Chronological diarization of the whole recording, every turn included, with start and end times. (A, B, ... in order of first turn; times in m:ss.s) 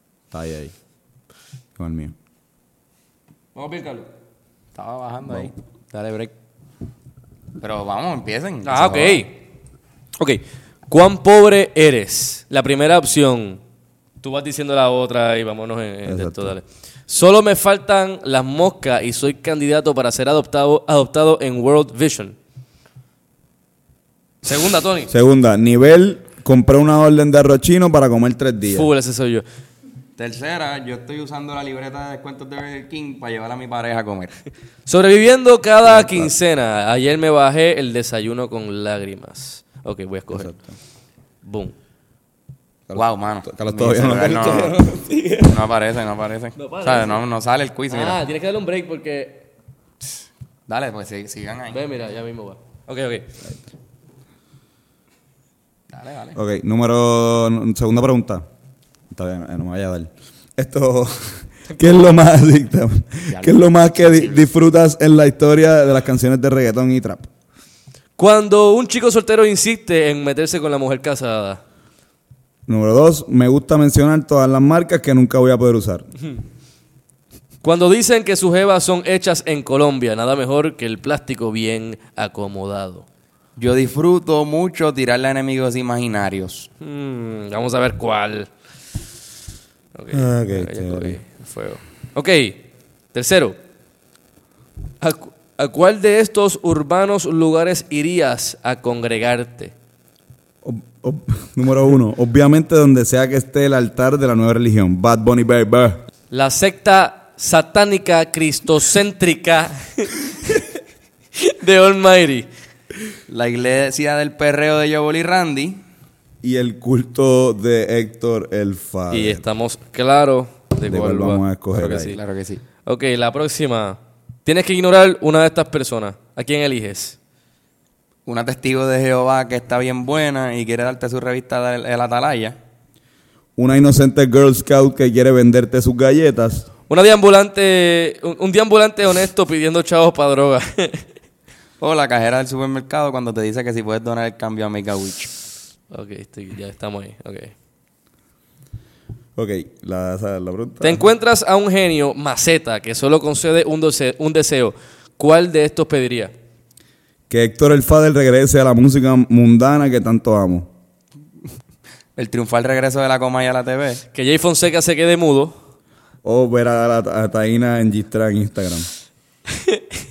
0:00.3-0:00.7 A
0:01.8-0:02.1 A
0:03.5-0:04.1 B
0:04.8-0:06.3 C
0:07.6-0:09.2 C
0:08.6-0:09.4 B
0:08.8-0:09.2 A
0:10.2-0:13.6 B
0:14.2-0:22.4 B
0:16.0-0:16.5 A
0:24.4-0:25.1 B
0:25.1-0:28.9 A
0:28.7-0:29.4 B
0:30.2-0:34.3 C
0:34.8-0:40.5 B
0:35.8-0:36.3 A
0:40.3-0:40.7 A
0:41.4-0:41.7 B
0:42.9-0:45.2 A
0:42.9-0:44.8 C
0:44.9-0:45.5 B
0:45.4-0:48.2 C
0:46.6-0:47.2 B
0:47.9-0:49.4 B
0:50.7-0:51.8 C
0:51.7-0:53.3 B
0:55.9-0:56.4 C
0:56.4-0:58.4 A
0:59.1-1:07.3 A
1:03.3-1:04.5 C
1:08.2-1:11.6 B
1:12.7-1:16.1 A
1:17.6-1:23.0 B
1:23.6-1:26.7 C
1:26.8-1:28.5 B
1:29.9-1:33.6 B
1:30.1-1:31.2 A
1:35.0-1:39.7 B
1:40.6-1:46.0 A
1:46.3-1:50.7 B
1:51.4-1:52.5 B
1:53.3-1:55.8 C
1:56.4-1:59.4 A
1:59.1-2:02.2 B
2:00.8-2:02.2 A
2:01.8-2:02.6 C
2:02.8-2:07.2 B
2:08.2-2:12.6 C
2:13.6-2:16.7 A
2:16.9-2:21.0 B
2:21.8-2:25.3 C
2:25.9-2:27.5 B
2:29.4-2:31.0 A
2:30.8-2:36.3 B
2:37.3-2:40.7 A
2:42.2-2:44.0 C
2:44.1-2:45.5 B
2:46.2-2:48.9 A
2:49.6-2:49.8 B